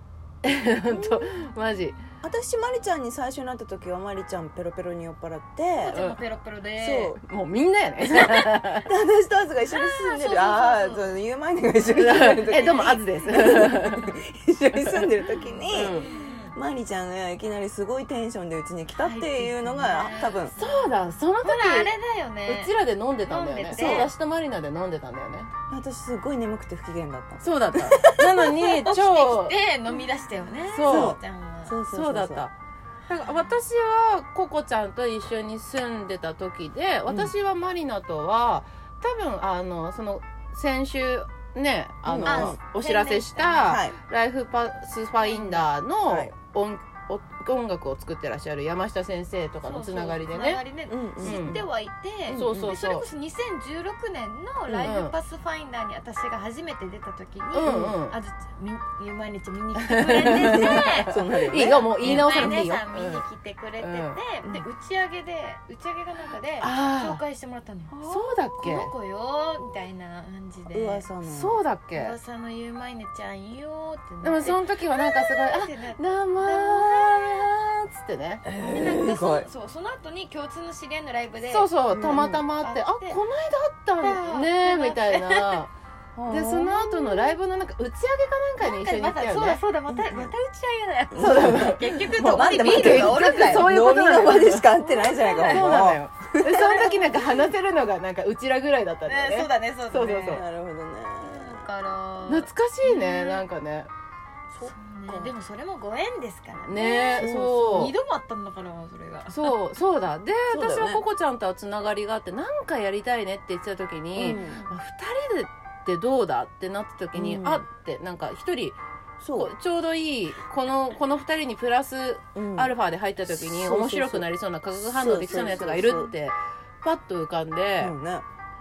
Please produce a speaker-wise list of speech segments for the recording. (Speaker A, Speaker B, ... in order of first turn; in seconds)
Speaker A: 0.4-2.0, 5.9-6.2, 6.8-8.9, 11.9-14.2, 14.7-15.1, 15.7-16.1, 20.5-21.9, 22.4-25.5, 27.4-29.6, 30.7-31.2, 31.9-32.5, 33.1-50.6, 51.2-51.6, 52.3-53.0, 54.8-55.1, 57.5-58.2, 59.8-63.2, 63.8-64.2, 66.6-67.2, 68.0-68.9, 71.2-72.2, 74.2-78.5, 81.5-85.7, 86.3-89.6, 91.2-94.7, 95.4-100.4, 102.2-103.9, 106.6-107.9, 109.3-118.8, 119.3-127.9
Speaker B: 0.9-1.4, 2.2-6.0, 8.8-20.6, 23.7-24.1, 25.7-28.9, 30.8-32.5, 37.1-37.3, 42.0-42.6, 43.6-44.0, 46.0-46.3, 50.9-51.6, 52.3-52.8, 54.7-55.0, 57.6-58.0, 60.2-62.6, 70.7-71.6, 78.5-79.5, 81.9-82.4, 86.2-87.1, 89.9-90.3, 91.1-97.2, 100.2-101.7, 104.6-105.3, 107.1-107.8, 110.5-111.0, 114.2-114.7, 117.1-117.6, 119.2-119.5, 122.3-122.7, 123.2-126.1, 127.8-128.2
Speaker C: 5.8-7.2, 9.7-11.2, 12.5-13.0, 15.9-16.6, 19.0-24.1, 28.8-31.8, 33.1-33.6, 42.2-43.7, 45.2-45.7, 49.6-61.3, 62.0-71.0, 71.9-77.4, 78.7-83.2, 84.0-85.6, 88.6-93.7, 94.5-95.8, 99.0-100.4, 101.2-103.4, 104.5-109.5, 114.2-114.7